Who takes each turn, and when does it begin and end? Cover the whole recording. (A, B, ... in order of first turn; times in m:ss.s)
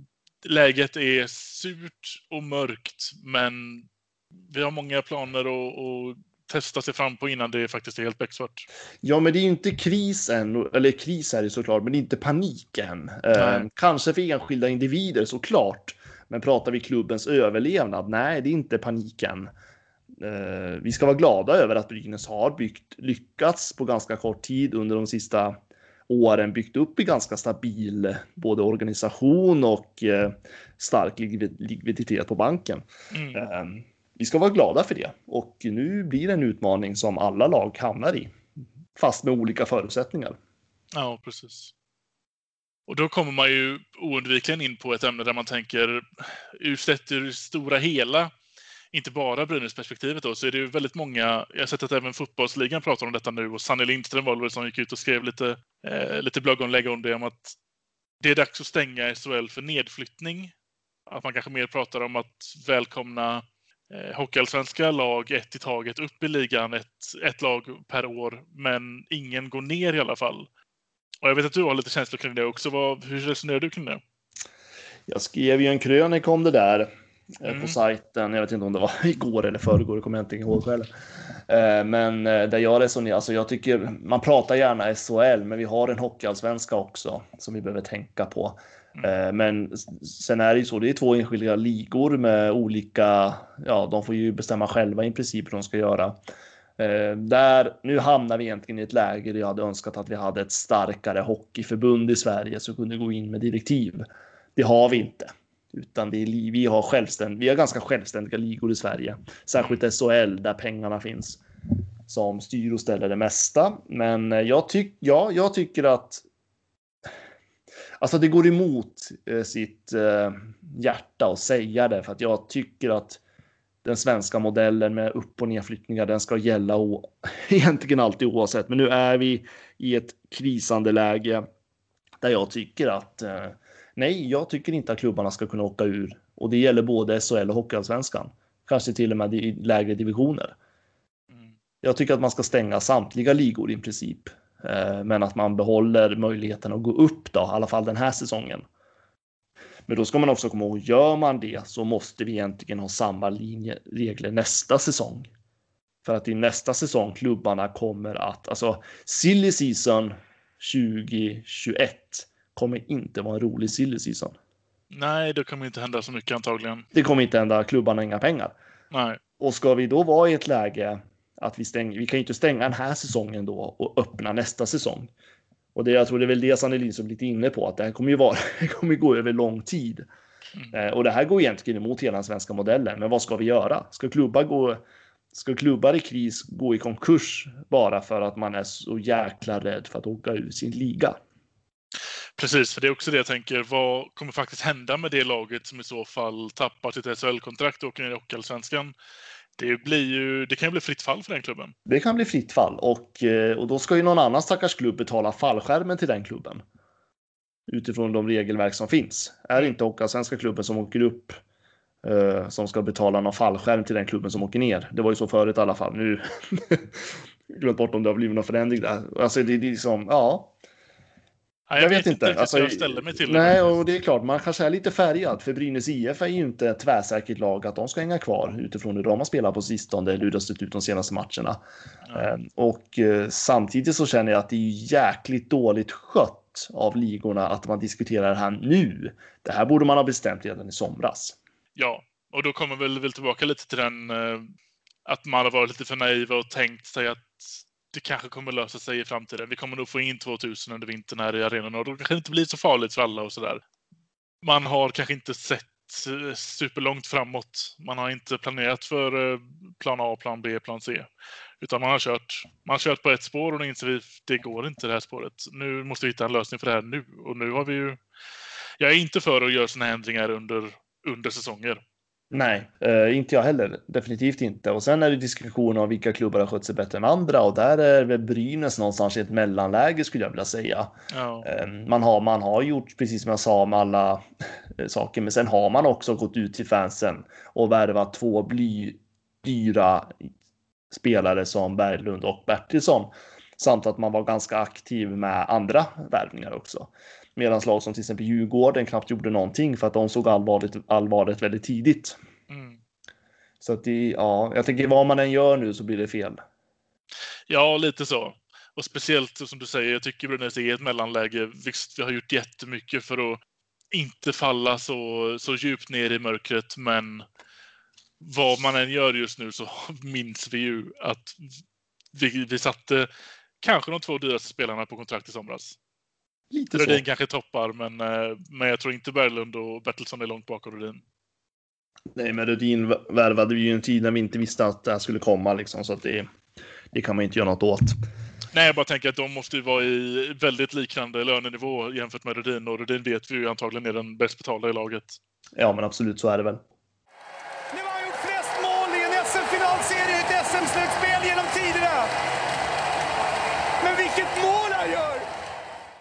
0:00.4-0:03.9 A
0:04.5-0:08.6 A
0:09.0-0:19.5 B
0:13.4-0:13.6 A
0:20.2-0:25.6 B
0:26.1-0:38.3 B
0:33.1-0:33.4 A
0:39.0-0:40.4 B
0:40.9-0:41.7 A
0:42.9-0:48.3 A
0:48.9-0:57.6 A
0:58.2-1:00.5 A
1:01.1-1:10.5 A
1:11.2-1:14.0 A
1:15.1-1:20.9 B
1:17.4-1:17.8 A
1:21.5-1:36.2 B
1:36.8-1:44.0 B
1:44.6-1:51.4 B
1:52.1-1:56.2 B
1:58.0-2:03.2 B
2:03.8-2:11.4 B
2:12.2-2:20.5 B
2:21.8-2:28.6 B
2:29.9-2:35.3 B
2:36.0-2:44.4 B
2:44.9-2:46.8 A
2:46.9-2:48.5 B
2:48.9-2:49.2 A
2:49.4-2:55.1 B
2:55.7-3:00.0 B
3:00.7-3:04.8 B
3:05.3-3:11.2 B
3:12.4-3:18.9 A
3:19.6-3:21.7 A
3:21.8-3:26.6 B
3:27.7-3:31.4 B
3:32.0-3:40.5 B
3:41.7-3:43.7 A
3:41.8-3:51.6 B
3:52.1-3:52.3 A
3:52.1-4:01.4 B
4:01.8-4:04.5 A
4:05.0-4:13.6 A
4:14.4-4:21.1 A
4:21.6-4:28.0 A
4:28.8-4:31.8 A
4:32.3-4:40.9 B
4:41.1-4:41.5 A
4:41.4-4:44.2 B
4:44.8-4:50.2 B
4:50.9-5:02.2 B
5:02.5-5:02.8 A
5:03.6-5:06.4 B
5:07.5-5:13.4 A
5:13.9-5:17.2 A
5:18.2-5:21.5 A
5:22.1-5:23.1 A
5:23.6-5:25.8 A
5:26.5-5:27.0 B
5:26.7-5:31.0 A
5:32.2-5:36.3 B
5:36.9-5:38.0 B
5:38.5-5:45.2 A
5:45.6-5:46.6 B
5:47.7-5:52.1 C
5:53.8-5:55.2 C